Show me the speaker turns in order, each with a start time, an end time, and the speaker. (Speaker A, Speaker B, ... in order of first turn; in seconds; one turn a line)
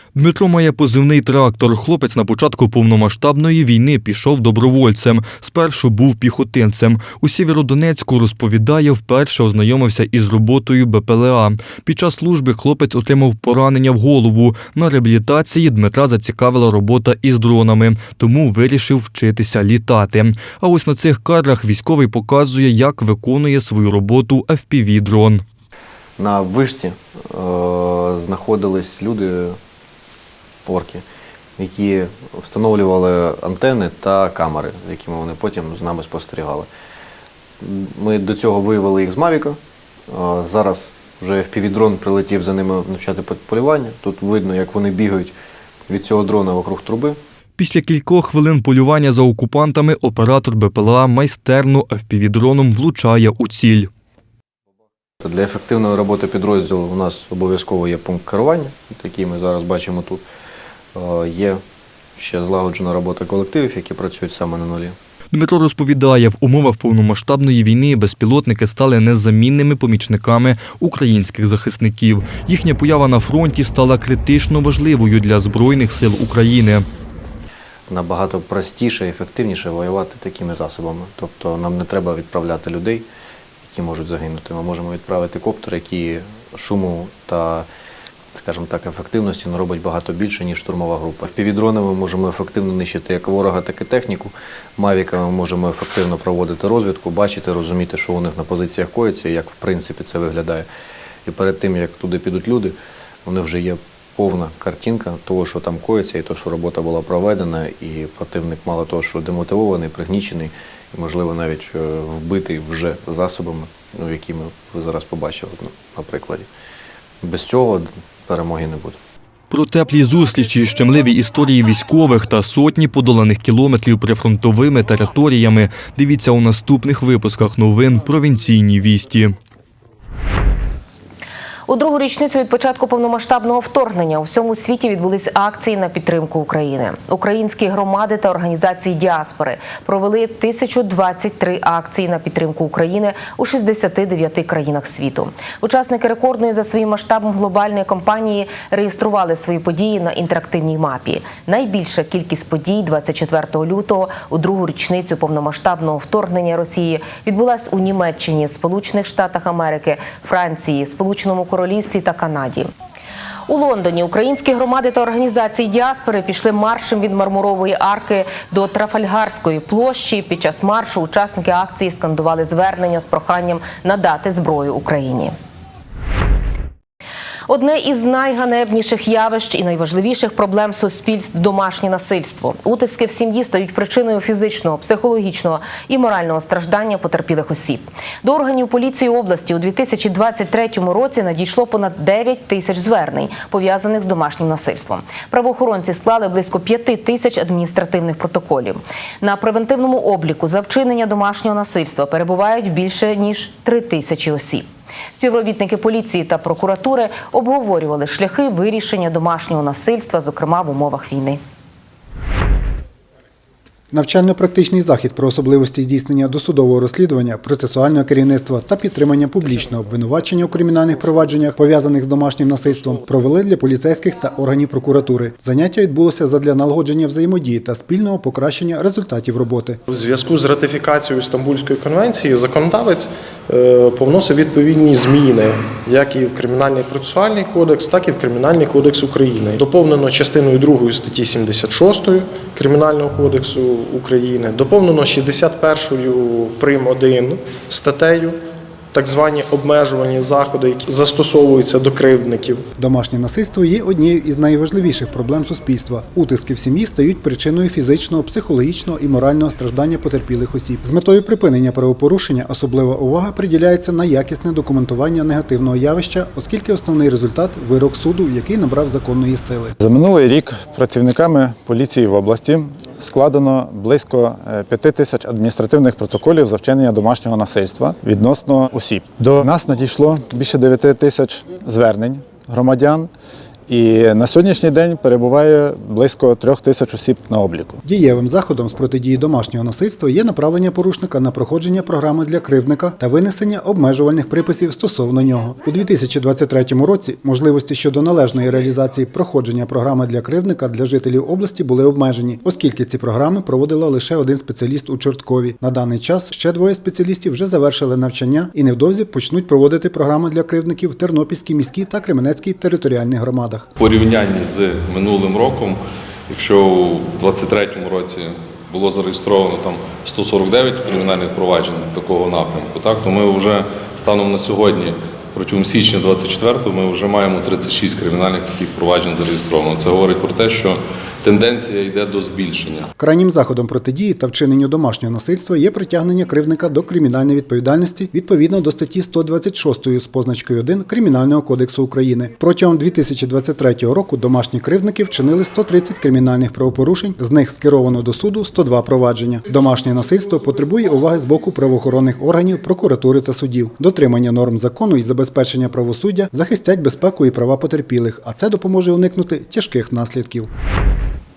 Speaker A: 0.2-25.4
Speaker B: 26.2-29.6
Speaker B: 30.7-31.0
Speaker B: 31.6-36.7
Speaker B: 37.6-39.6
Speaker B: 40.1-45.4
Speaker B: 45.9-47.2
Speaker A: 47.6-53.9
Speaker B: 55.2-60.2
Speaker B: 61.0-61.6
Speaker B: 62.2-65.0
Speaker A: 65.3-76.9
Speaker B: 77.9-83.1
Speaker B: 83.6-87.7
Speaker B: 88.3-100.7
Speaker B: 101.3-116.5
Speaker B: 117.2-119.0
Speaker A: 119.5-129.4
Speaker C: 131.7-162.7
Speaker C: 163.5-175.3
Speaker C: 177.5-211.4
Speaker D: 213.9-229.8
Speaker E: 222.7-223.0
Speaker E: 229.9-248.4
Speaker E: 248.9-252.6
Speaker D: 252.8-269.8
Speaker F: 269.8-283.1
Speaker F: 283.7-287.8
Speaker D: 287.8-313.7
Speaker G: 313.8-315.8
Speaker G: 316.3-332.9
Speaker D: 333.0-360.5